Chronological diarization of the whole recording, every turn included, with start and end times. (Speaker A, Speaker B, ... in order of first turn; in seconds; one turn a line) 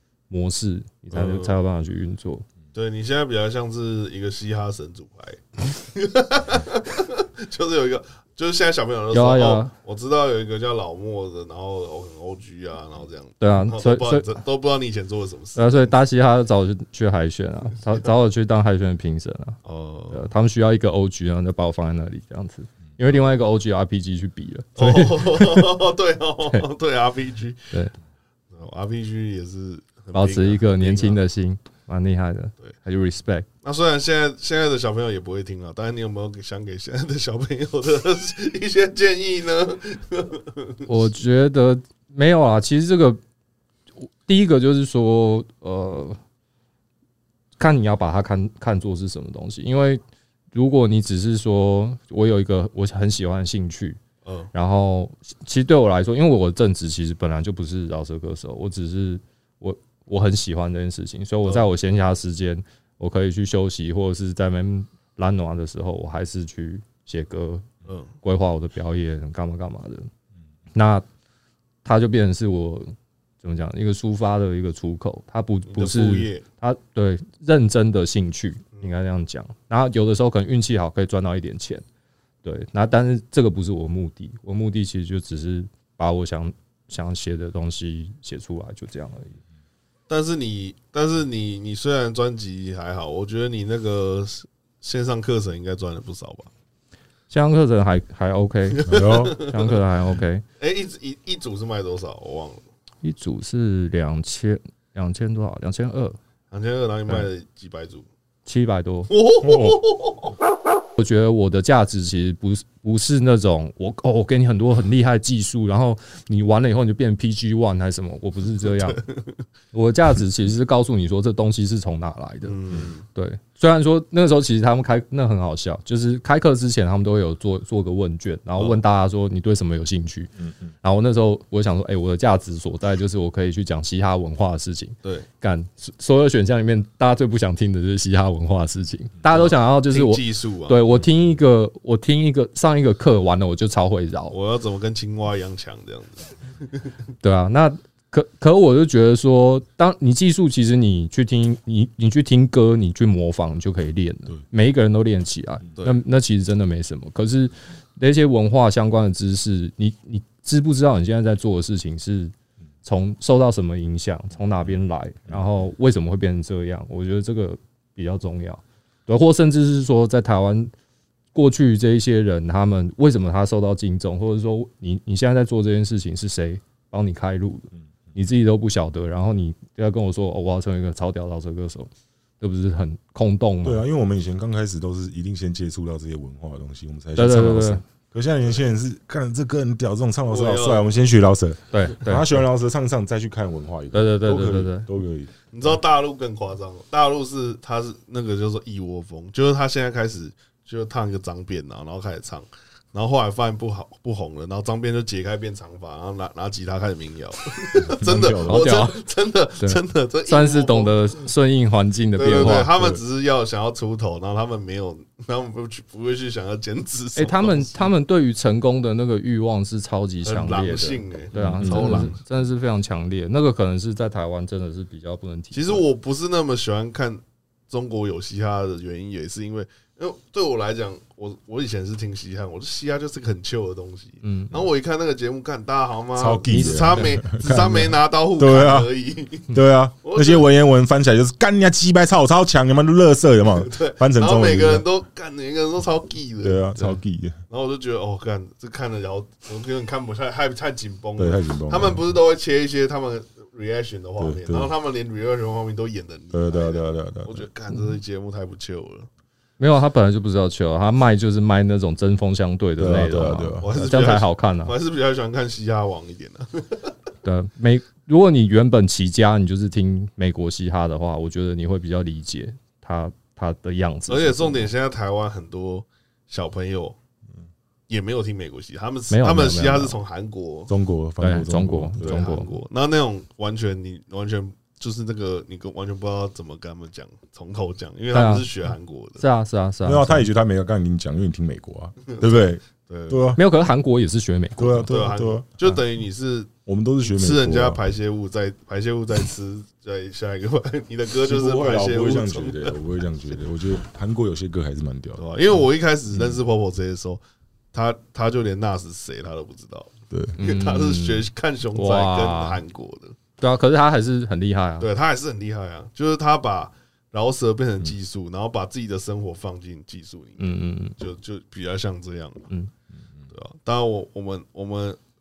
Speaker A: 0.3-2.4
Speaker B: 1.1-1.6
Speaker B: 2.7-15.9
Speaker A: 9.1-9.7
Speaker A: 13.4-14.3
Speaker A: 15.6-19.6
Speaker B: 19.6-20.2
Speaker A: 20.1-25.7
Speaker B: 24.8-27.6
Speaker B: 28.5-31.2
Speaker A: 30.1-33.5
Speaker B: 33.6-40.9
Speaker A: 40.8-43.2
Speaker A: 44.2-46.2
Speaker A: 47.6-50.0
Speaker A: 50.5-54.0
Speaker B: 54.2-54.5
Speaker A: 54.5-67.7
Speaker B: 67.9-68.1
Speaker A: 68.2-70.1
Speaker A: 70.7-71.0
Speaker A: 71.8-81.8
Speaker B: 75.7-76.4
Speaker A: 82.4-89.4
Speaker B: 90.1-96.5
Speaker A: 97.3-100.4
Speaker B: 98.8-99.8
Speaker C: 98.9-99.3
Speaker B: 100.6-102.6
Speaker A: 103.0-106.2
Speaker B: 106.5-108.0
Speaker A: 108.5-109.1
Speaker B: 109.1-110.3
Speaker C: 109.4-109.8
Speaker A: 111.0-119.0
Speaker B: 118.6-119.3
Speaker A: 119.7-122.6
Speaker B: 122.4-123.0
Speaker A: 123.1-130.3
Speaker A: 130.8-144.3
Speaker B: 139.3-140.8
Speaker B: 144.3-146.8
Speaker A: 147.2-162.3
Speaker A: 162.8-170.7
Speaker A: 171.3-183.8
Speaker C: 183.6-195.3
Speaker A: 187.2-187.8
Speaker B: 190.3-190.8
Speaker A: 191.7-192.4
Speaker A: 193.9-194.9
Speaker B: 195.5-211.1
Speaker C: 207.8-208.7
Speaker A: 208.4-209.0
Speaker A: 209.6-212.7
Speaker B: 212.2-217.9
Speaker C: 212.5-213.0
Speaker A: 217.2-225.8
Speaker B: 220.2-222.2
Speaker C: 221.3-222.1
Speaker B: 225.5-240.5
Speaker A: 234.2-234.6
Speaker C: 236.2-238.9
Speaker A: 236.5-237.2
Speaker C: 239.5-244.8
Speaker B: 243.5-246.7
Speaker C: 246.4-247.4
Speaker B: 247.5-259.1
Speaker C: 251.2-252.0
Speaker C: 254.2-254.7
Speaker C: 256.3-257.5
Speaker A: 259.6-264.7
Speaker C: 262.8-263.7
Speaker B: 263.6-266.9
Speaker A: 267.2-274.7
Speaker B: 274.1-277.0
Speaker B: 277.9-280.7
Speaker A: 279.1-280.0
Speaker C: 280.7-282.3
Speaker A: 281.2-282.5
Speaker B: 282.0-289.2
Speaker A: 288.1-288.5
Speaker A: 289.2-290.3
Speaker C: 289.8-293.4
Speaker B: 292.9-293.2
Speaker A: 293.4-294.9
Speaker C: 294.6-295.4
Speaker B: 294.9-296.5
Speaker C: 296.6-297.8
Speaker B: 297.0-302.8
Speaker C: 301.2-305.2
Speaker B: 305.2-307.2
Speaker B: 307.7-313.1
Speaker A: 310.4-312.6
Speaker A: 313.4-314.9
Speaker B: 314.8-322.5
Speaker A: 320.4-320.9
Speaker B: 323.3-325.0